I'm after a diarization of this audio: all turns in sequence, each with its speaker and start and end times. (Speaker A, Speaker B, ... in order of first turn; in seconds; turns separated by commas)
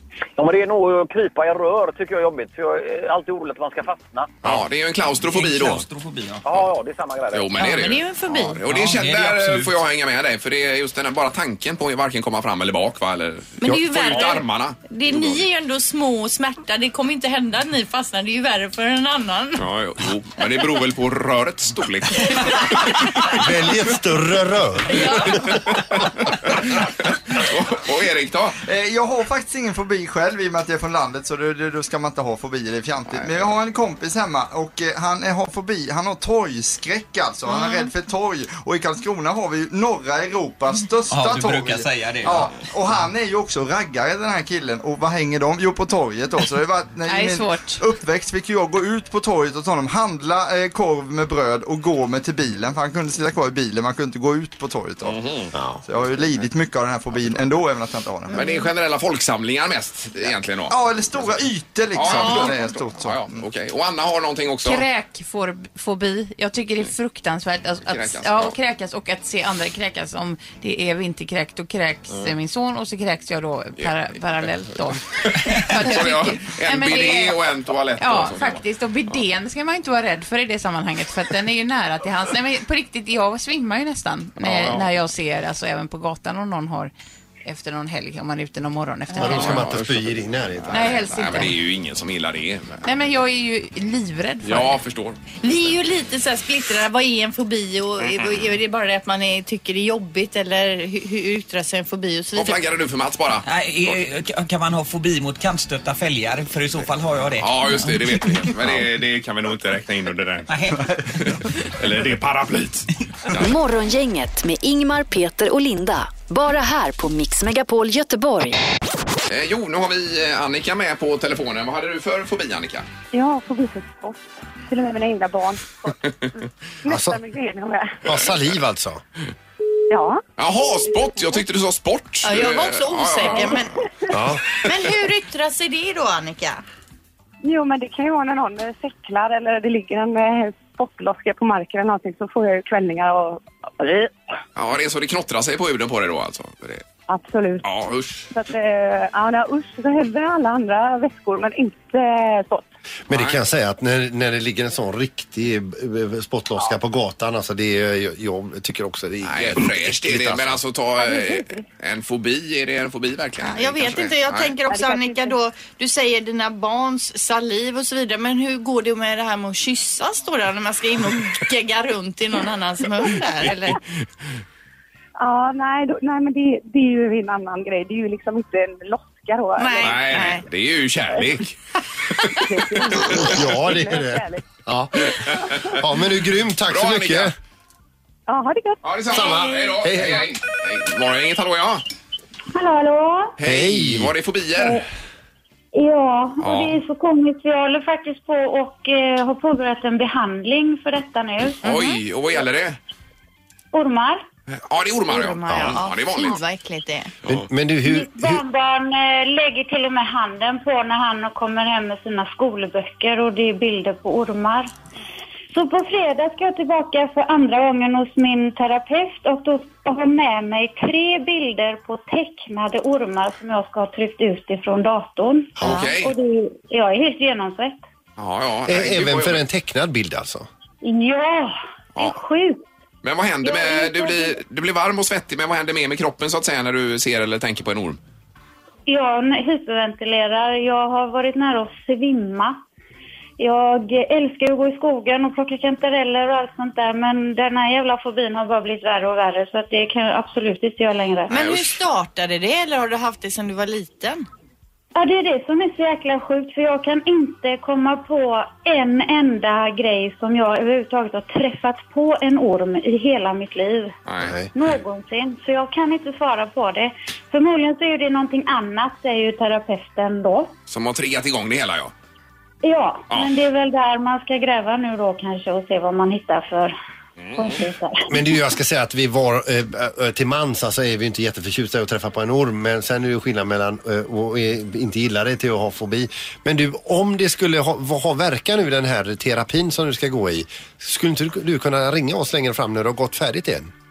Speaker A: 0.4-4.4, Speaker B: 4.4-5.8, Speaker C: 5.2-6.5, Speaker A: 6.4-7.5, Speaker B: 7.3-15.4, Speaker D: 7.6-8.6, Speaker C: 8.7-9.8, Speaker D: 13.6-19.6, Speaker B: 19.6-23.0, Speaker E: 23.3-25.6, Speaker D: 24.9-25.5, Speaker B: 26.4-28.6, Speaker F: 28.6-55.2, Speaker B: 33.1-33.5, Speaker D: 37.5-37.9, Speaker C: 41.1-42.5, Speaker G: 47.0-47.8, Speaker B: 55.0-55.5, Speaker E: 55.5-55.8, Speaker F: 55.9-58.4, Speaker B: 58.3-61.3, Speaker D: 58.3-58.7, Speaker F: 60.7-63.4, Speaker B: 61.9-64.8, Speaker D: 62.0-62.6, Speaker G: 64.6-77.4, Speaker B: 67.9-68.5, Speaker B: 75.2-78.6, Speaker G: 78.0-86.9, Speaker B: 84.4-84.9, Speaker G: 87.4-89.6, Speaker E: 89.2-91.1, Speaker B: 89.2-92.8, Speaker G: 90.7-91.5, Speaker G: 92.8-94.8, Speaker B: 94.4-95.2, Speaker D: 95.4-102.6, Speaker B: 98.0-98.4, Speaker B: 102.3-104.0, Speaker C: 103.4-108.2, Speaker B: 107.4-110.5, Speaker C: 110.5-111.3, Speaker B: 111.2-113.6, Speaker H: 113.4-118.6, Speaker B: 119.3-122.9, Speaker I: 123.1-128.0, Speaker E: 126.9-127.2, Speaker E: 128.0-129.0, Speaker B: 128.1-128.5, Speaker I: 129.9-130.2, Speaker B: 130.4-133.7, Speaker I: 131.0-131.4, Speaker D: 132.2-133.8, Speaker I: 133.2-134.1, Speaker E: 134.1-134.4, Speaker D: 134.5-136.6, Speaker I: 137.4-143.8, Speaker B: 144.6-146.8, Speaker I: 147.1-147.7, Speaker B: 147.6-148.3, Speaker I: 148.3-152.7, Speaker E: 153.1-160.6, Speaker B: 153.1-153.4, Speaker B: 159.2-164.5, Speaker I: 161.0-161.7, Speaker D: 163.4-173.8, Speaker I: 164.7-165.3, Speaker I: 175.2-180.3, Speaker D: 179.6-180.4, Speaker B: 179.8-181.6, Speaker I: 182.4-184.4, Speaker E: 183.1-187.3, Speaker I: 185.4-185.8, Speaker B: 186.7-187.3, Speaker I: 188.3-188.8, Speaker B: 188.8-191.8, Speaker E: 189.1-190.3, Speaker D: 189.2-189.7, Speaker J: 192.5-193.3, Speaker B: 193.4-194.8, Speaker E: 193.4-194.1, Speaker J: 195.7-201.6, Speaker B: 196.4-196.8, Speaker B: 201.6-202.8, Speaker D: 201.6-202.0, Speaker J: 203.7-204.2, Speaker B: 204.5-206.4, Speaker D: 205.1-207.1, Speaker E: 207.2-208.4, Speaker J: 207.8-214.7, Speaker J: 215.5-227.8, Speaker B: 225.6-226.1, Speaker D: 225.6-225.9, Speaker B: 228.2-229.4, Speaker E: 228.7-230.5, Speaker J: 230.8-232.6, Speaker B: 233.0-238.0, Speaker J: 233.4-234.3, Speaker J: 238.9-242.6, Speaker J: 243.4-251.3, Speaker D: 251.3-254.2, Speaker B: 251.3-251.8, Speaker J: 254.9-263.9, Speaker B: 264.1-264.3, Speaker E: 264.2-264.5, Speaker J: 264.5-270.5, Speaker B: 270.7-271.9, Speaker J: 272.6-276.7, Speaker B: 277.2-277.6, Speaker J: 277.4-278.1, Speaker E: 278.1-293.7